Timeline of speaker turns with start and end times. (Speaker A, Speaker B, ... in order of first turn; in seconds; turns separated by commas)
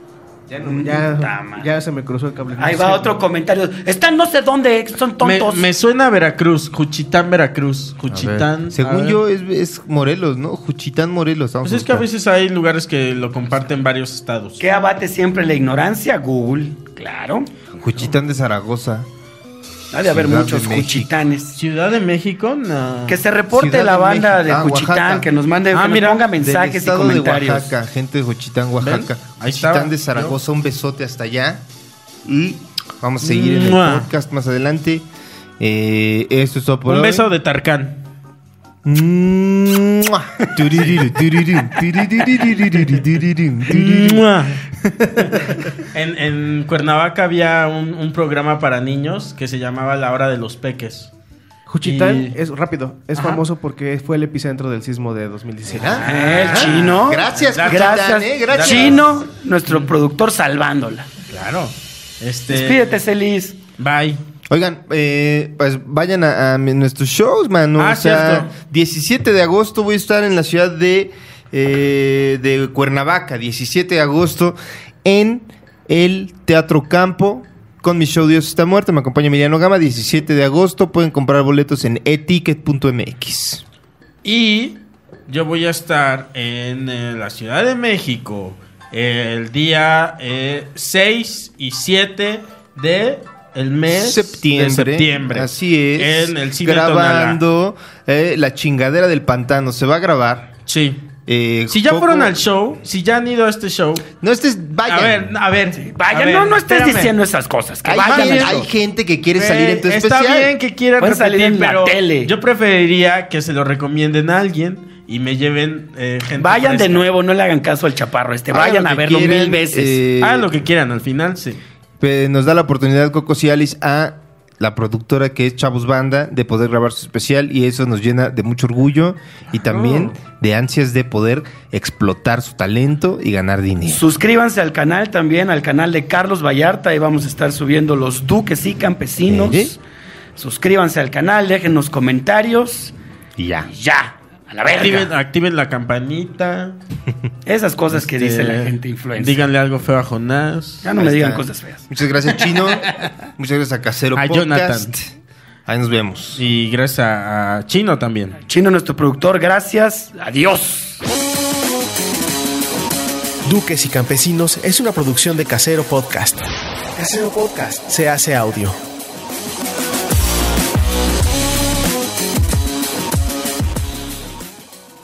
Speaker A: 0.5-3.1, Speaker B: 0.6-0.9, Speaker C: 0.7-1.7, Speaker C: 2.5-5.7, Speaker D: 5.2-9.2, Speaker B: 8.1-12.1, Speaker D: 11.6-14.6, Speaker C: 14.6-17.5, Speaker B: 17.7-19.1, Speaker C: 19.9-21.6, Speaker B: 20.0-21.1, Speaker D: 21.5-23.2, Speaker C: 23.1-27.8, Speaker B: 23.5-25.3, Speaker D: 25.7-26.2, Speaker B: 26.4-31.6, Speaker D: 28.8-30.4, Speaker B: 32.2-35.1, Speaker D: 33.2-34.1, Speaker B: 35.6-37.3, Speaker D: 36.9-38.0, Speaker B: 38.8-44.2, Speaker D: 40.7-41.0, Speaker D: 43.6-51.1, Speaker B: 44.9-45.5, Speaker A: 51.7-56.0, Speaker D: 51.8-52.4, Speaker D: 53.1-53.4, Speaker B: 55.7-59.2, Speaker D: 55.9-59.0, Speaker C: 56.0-61.1, Speaker D: 59.7-59.9, Speaker D: 61.3-62.8, Speaker C: 62.5-63.6, Speaker D: 63.8-64.2, Speaker B: 64.5-83.6, Speaker D: 67.8-68.5, Speaker D: 84.2-97.4, Speaker B: 93.9-100.5, Speaker D: 100.7-101.0, Speaker B: 101.2-102.3, Speaker D: 101.7-104.1, Speaker B: 104.2-105.3, Speaker D: 104.8-107.1, Speaker C: 105.8-108.7, Speaker B: 107.8-110.5, Speaker D: 107.9-108.7, Speaker D: 109.3-117.0, Speaker C: 111.0-112.3, Speaker C: 116.4-120.0, Speaker B: 118.5-120.5, Speaker D: 120.2-121.6, Speaker B: 122.0-134.0, Speaker D: 129.5-130.2, Speaker C: 133.9-139.8, Speaker B: 139.3-139.7, Speaker C: 140.3-142.9, Speaker B: 143.4-143.7, Speaker C: 143.7-145.1, Speaker D: 144.6-146.8, Speaker C: 147.4-149.4, Speaker D: 147.9-150.9, Speaker C: 150.8-151.8, Speaker B: 151.0-155.0, Speaker D: 152.6-153.1, Speaker D: 154.1-155.0, Speaker B: 155.7-156.4, Speaker D: 156.3-158.3, Speaker C: 158.5-161.0, Speaker E: 163.4-166.4, Speaker E: 166.9-168.8